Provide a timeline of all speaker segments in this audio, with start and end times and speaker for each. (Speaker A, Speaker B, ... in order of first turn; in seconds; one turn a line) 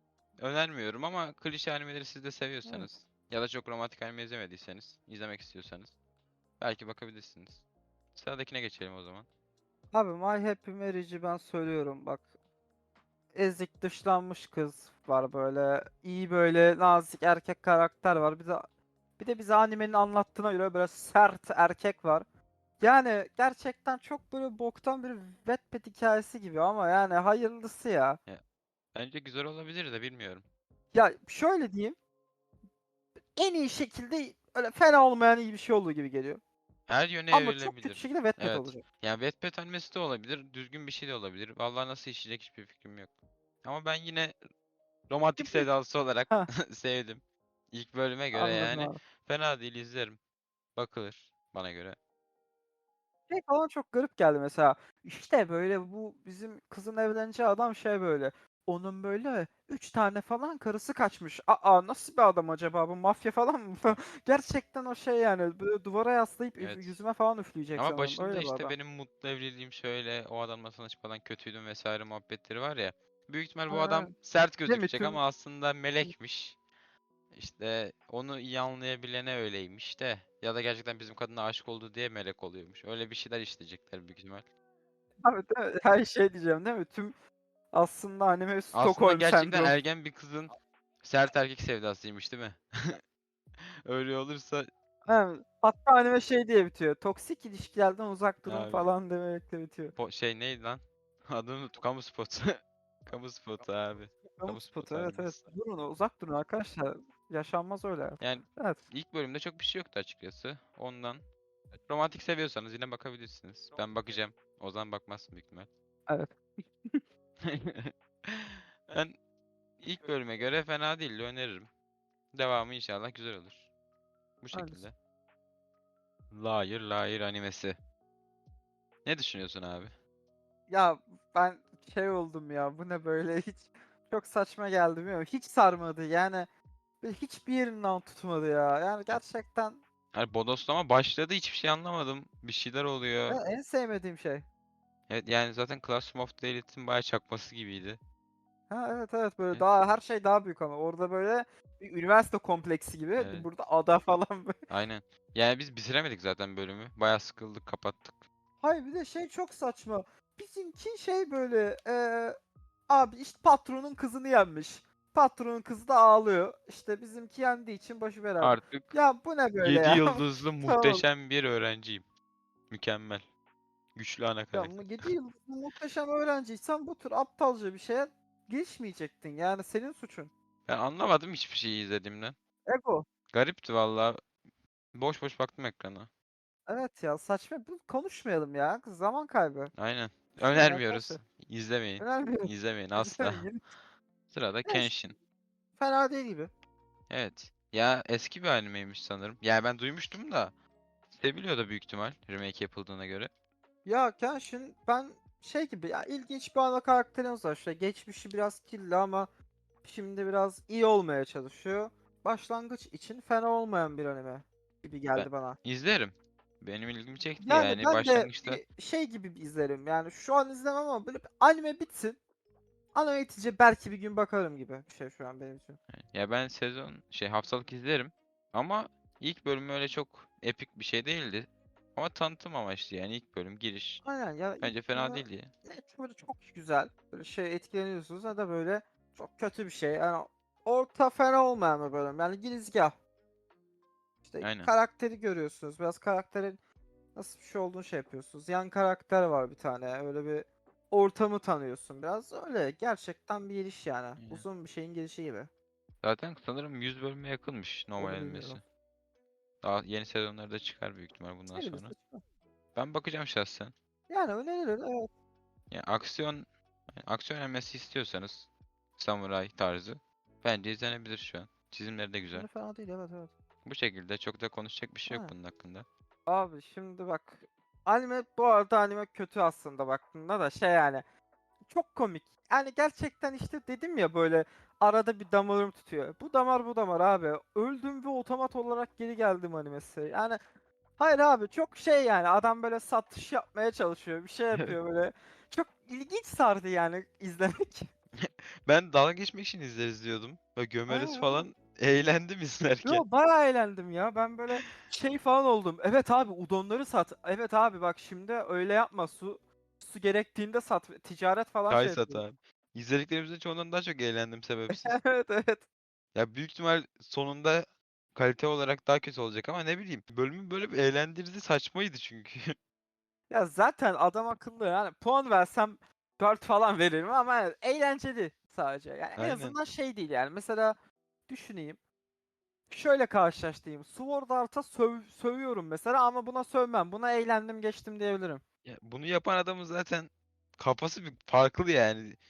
Speaker A: 0.4-6.0
Speaker A: 6.6-9.3
Speaker B: 9.9-12.3
Speaker B: 13.3-18.7
Speaker B: 19.2-22.2
Speaker B: 22.8-28.2
Speaker A: 28.9-30.4
Speaker B: 30.9-32.0
Speaker B: 33.4-36.4
Speaker A: 36.9-44.4
Speaker B: 37.3-38.8
Speaker A: 45.1-50.2
Speaker B: 45.4-45.7
Speaker B: 48.3-49.0
Speaker A: 50.8-52.0
Speaker B: 53.3-68.8
Speaker A: 66.6-67.0
Speaker A: 67.8-76.6
Speaker B: 73.7-74.1
Speaker B: 74.7-75.2
Speaker A: 77.3-84.5
Speaker B: 85.2-87.2
Speaker B: 87.7-89.8
Speaker A: 88.7-93.0
Speaker A: 93.8-94.7
Speaker B: 95.1-100.0
Speaker A: 98.5-98.9
Speaker A: 100.0-105.5
Speaker B: 104.4-108.8
Speaker A: 108.2-111.2
Speaker A: 111.9-115.7
Speaker B: 116.1-116.3
Speaker A: 117.4-119.2
Speaker A: 119.8-121.7
Speaker A: 122.3-123.7
Speaker A: 124.4-125.0
Speaker B: 124.5-124.8
Speaker A: 126.3-127.8
Speaker A: 129.1-129.9
Speaker B: 130.7-136.5
Speaker B: 137.0-139.8
Speaker A: 140.1-143.4
Speaker B: 143.3-144.5
Speaker A: 145.1-148.0
Speaker B: 148.7-154.5
Speaker A: 153.2-153.5
Speaker A: 154.7-158.2
Speaker B: 158.6-162.3
Speaker B: 162.9-171.1
Speaker A: 168.4-168.9
Speaker A: 169.6-172.0
Speaker A: 172.7-173.2
Speaker A: 173.9-175.1
Speaker B: 174.5-180.3
Speaker A: 180.7-182.3
Speaker B: 182.7-183.1
Speaker A: 183.3-184.2
Speaker A: 184.9-186.1
Speaker B: 186.7-189.7
Speaker A: 189.8-193.5
Speaker B: 190.4-191.2
Speaker B: 192.0-193.6
Speaker A: 194.3-195.2
Speaker B: 194.7-194.9
Speaker B: 195.8-196.5
Speaker A: 197.1-200.5
Speaker A: 201.1-203.3
Speaker B: 203.8-209.3
Speaker B: 209.8-215.6
Speaker A: 215.2-218.6
Speaker B: 217.4-222.2
Speaker B: 222.9-225.8
Speaker A: 225.9-234.0
Speaker B: 234.0-243.0
Speaker A: 234.6-235.5
Speaker B: 244.2-246.6
Speaker A: 244.4-244.7
Speaker B: 247.2-255.5
Speaker A: 254.2-254.4
Speaker A: 256.0-258.6
Speaker B: 258.0-258.6
Speaker A: 259.6-261.9
Speaker B: 261.5-262.2
Speaker A: 262.8-263.7
Speaker B: 264.1-265.1
Speaker A: 265.7-266.5
Speaker A: 267.0-272.5
Speaker B: 272.3-273.3
Speaker A: 273.6-275.9
Speaker B: 275.1-275.3
Speaker B: 276.3-281.0
Speaker B: 281.7-290.4
Speaker B: 291.0-297.9
Speaker A: 298.2-303.0
Speaker B: 300.9-301.5
Speaker B: 302.8-312.2
Speaker A: 311.7-315.0
Speaker B: 314.7-315.6
Speaker A: 316.1-322.6
Speaker B: 323.3-330.8
Speaker A: 329.2-329.6
Speaker B: 331.3-331.8
Speaker B: 332.7-338.4
Speaker A: 338.6-342.2